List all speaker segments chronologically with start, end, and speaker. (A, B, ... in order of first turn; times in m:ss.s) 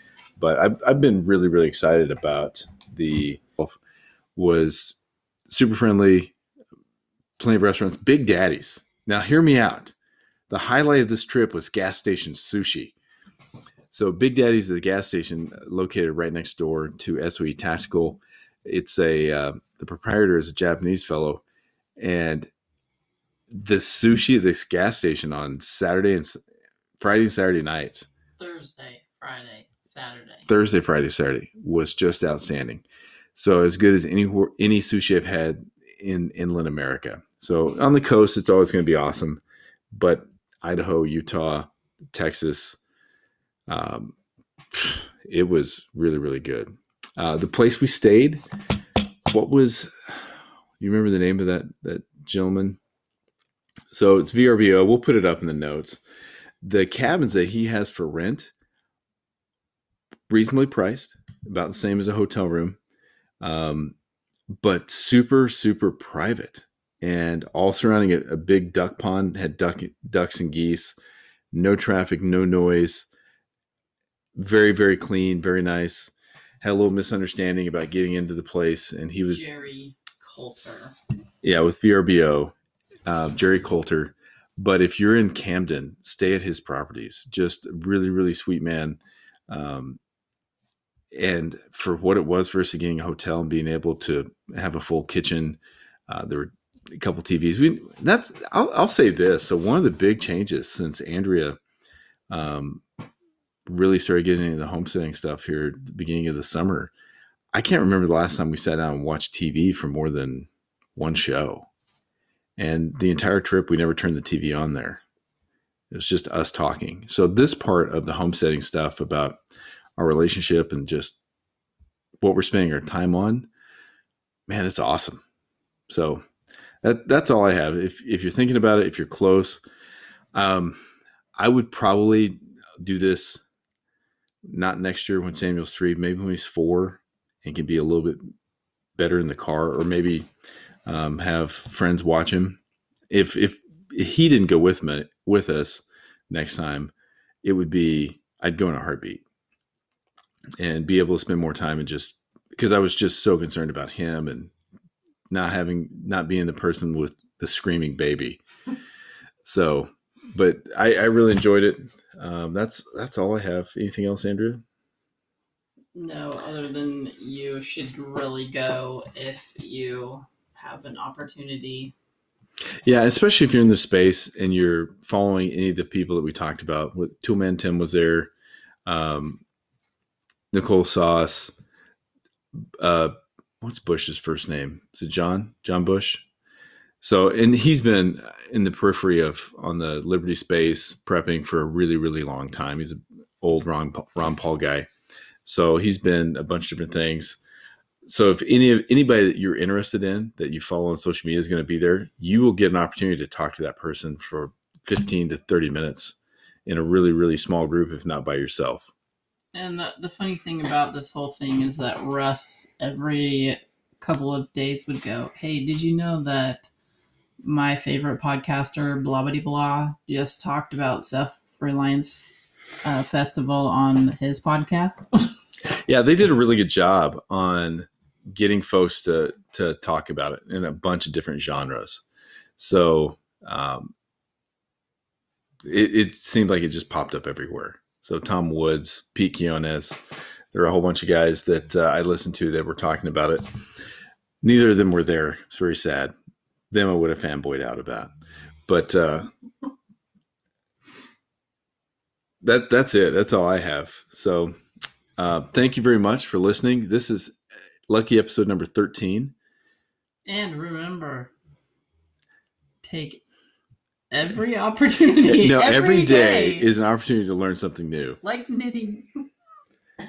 0:00.4-0:03.8 A
0:04.4-0:06.4 A
0:07.4-0:10.0 A
0:10.5-0:13.0 A
0:13.9-0:21.4 A
0:22.0-0:22.5 A
0:23.5-0:26.4 A
0:27.0-0:28.1 A
0:28.4-0:30.5 B
0:30.5-0:42.8 A
0:43.7-0:44.2 A
0:44.7-0:48.4 A
0:49.3-0:50.2 A
0:50.8-0:52.8 A
0:53.9-0:56.0 A
0:56.6-0:58.5 A
1:00.3-1:02.8 A
1:03.4-1:04.0 A
1:04.5-1:11.0 A
1:11.5-1:13.1 A
1:14.4-1:19.5 A
1:19.2-1:21.0 B
1:21.4-1:22.6 A
1:23.1-1:30.0 A
1:31.1-1:41.6 A
1:42.3-1:42.8 A
1:43.7-1:46.9 A
1:47.5-1:51.7 A
1:52.6-1:55.0 A
1:55.9-1:59.4 A
2:00.0-2:01.2 A
2:02.2-2:03.5 A
2:04.5-2:05.2 A
2:05.9-2:06.2 A
2:06.8-2:09.6 A
2:10.4-2:10.8 A
2:11.4-2:13.4 A
2:14.4-2:18.2 A
2:19.0-2:20.3 A
2:20.9-2:29.2 A
2:30.6-2:34.5 A
2:35.3-2:38.4 A
2:39.4-2:44.6 A
2:46.0-2:51.9 B
2:52.8-2:58.3 A
2:58.9-2:59.4 A
3:00.5-3:01.6 A
3:02.8-3:06.3 A
3:07.0-3:14.9 A
3:15.4-3:17.4 A
3:18.1-3:28.9 A
3:29.5-3:36.7 B
3:37.4-3:45.1 B
3:45.8-3:52.0 A
3:52.6-3:53.9 A
3:55.6-4:00.0 A
4:00.5-4:03.4 A
4:04.4-4:06.1 A
4:06.7-4:08.1 A
4:08.7-4:09.3 A
4:12.4-4:14.5 A
4:15.2-4:17.4 A
4:17.9-4:19.3 A
4:20.3-4:21.3 B
4:22.8-4:23.2 B
4:24.1-4:26.7 B
4:25.2-4:28.2 A
4:28.2-4:29.1 B